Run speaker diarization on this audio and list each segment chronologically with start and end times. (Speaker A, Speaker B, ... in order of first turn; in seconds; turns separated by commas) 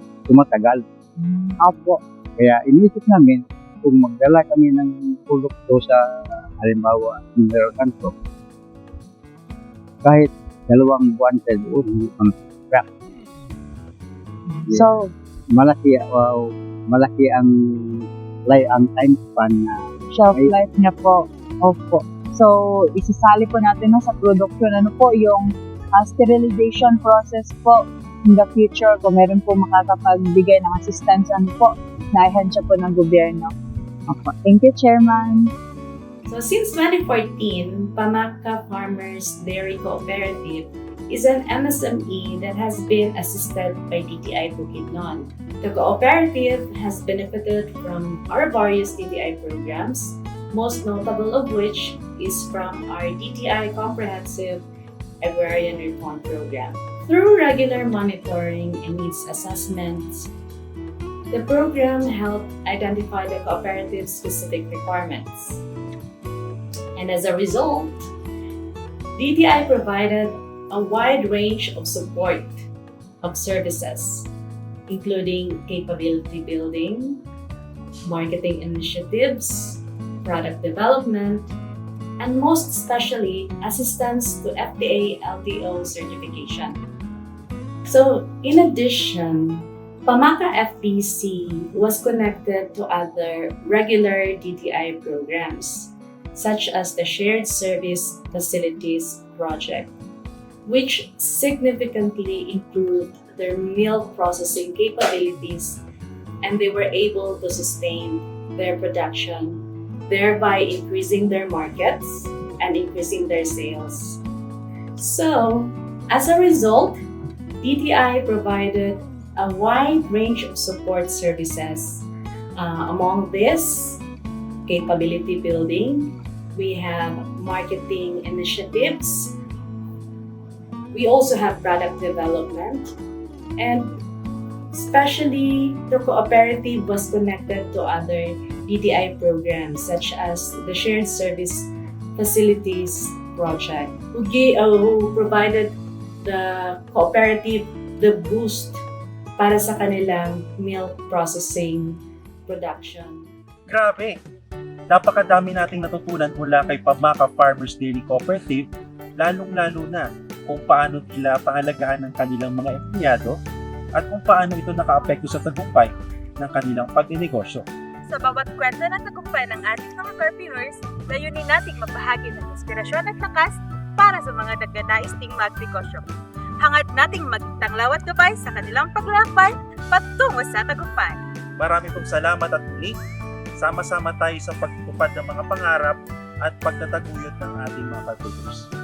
Speaker A: 0.3-0.8, Speaker A: 2.4-6.0, Speaker A: 6.6-8.1, Speaker A: 10.0-12.9, Speaker B: 14.7-15.1, Speaker A: 15.5-20.6, Speaker B: 20.1-33.5, Speaker B: 34.1-35.5, Speaker C: 36.3-54.6, Speaker C: 55.2-60.3, Speaker C: 61.3-65.6, Speaker C: 67.0-68.0, Speaker C: 69.2-72.7, Speaker C: 73.2-74.3, Speaker C: 74.9-77.2, Speaker C: 78.1-81.5, Speaker C: 82.2-86.8, Speaker C: 87.9-99.9, Speaker C: 100.7-105.8, Speaker C: 106.4-114.2, Speaker C: 115.0-117.0, Speaker C: 117.6-122.1, Speaker C: 122.6-124.0, Speaker C: 124.7-129.3, Speaker C: 130.9-132.9, Speaker C: 133.6-133.9, Speaker C: 134.7-148.8, Speaker C: 149.4-153.3, Speaker D: 153.7-154.2, Speaker D: 154.9-158.7, Speaker D: 159.2-163.4, Speaker D: 163.9-167.7, Speaker E: 168.1-176.1, Speaker E: 176.6-181.2, Speaker D: 181.6-183.0, Speaker D: 183.6-188.7